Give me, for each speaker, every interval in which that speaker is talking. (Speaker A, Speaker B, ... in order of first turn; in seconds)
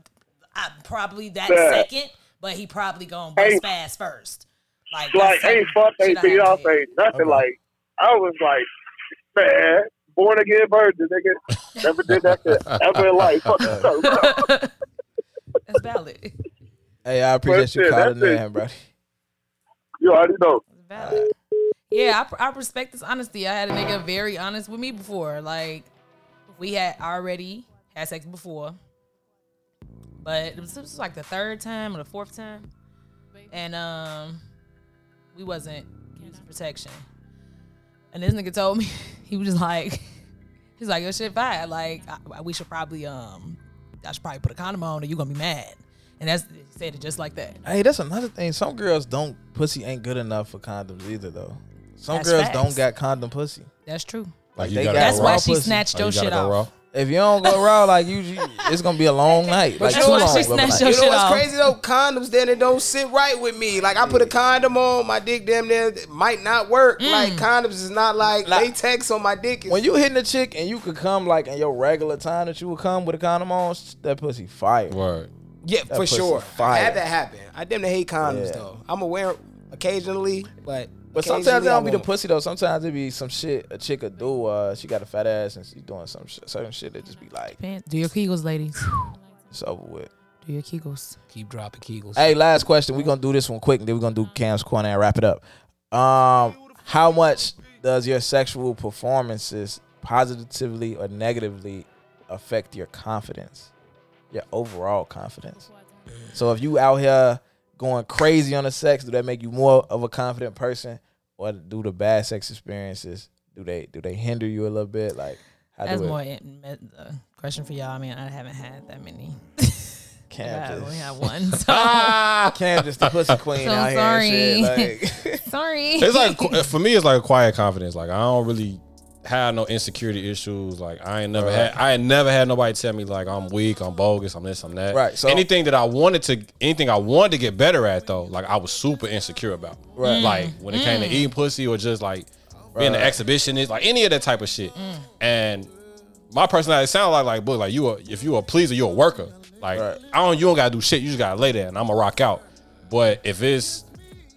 Speaker A: 0.5-6.7, 14.0-14.7, 15.7-16.4, 20.7-21.3, 21.9-25.9, 26.6-28.8, 30.2-32.7, 33.5-34.4, 35.3-37.0, 38.1-40.1, 40.8-47.6, 52.1-52.8, 53.9-54.3, 55.0-56.6, 59.8-61.7, 67.0-67.5, 87.6-89.1, 90.4-91.2, 115.8-122.3, 123.6-124.9, 125.5-126.7, 140.0-141.3, 144.8-145.1
Speaker B: 1.5-1.9, 3.4-3.6, 5.1-8.7, 9.3-14.5, 17.5-18.4, 20.0-20.6
Speaker C: 7.1-7.4, 13.6-13.9, 17.0-18.8, 20.9-21.3, 47.6-53.7, 54.5-55.9, 56.9-60.9, 64.0-64.3, 68.4-68.7, 69.7-75.0, 75.9-77.0, 78.2-78.7, 81.1-87.6, 89.5-90.1, 92.1-103.7, 104.3-105.7, 106.3-116.2, 120.3-121.1, 122.5-125.4, 131.3-131.8, 134.9-135.5, 139.9-140.3, 142.7-143.2, 149.7-150.0
Speaker D: 12.1-13.5, 54.6-56.7, 74.9-75.3, 121.5-123.1, 126.0-145.7, 146.3-153.8
Speaker E: 59.8-69.8, 75.6-82.1, 91.3-92.3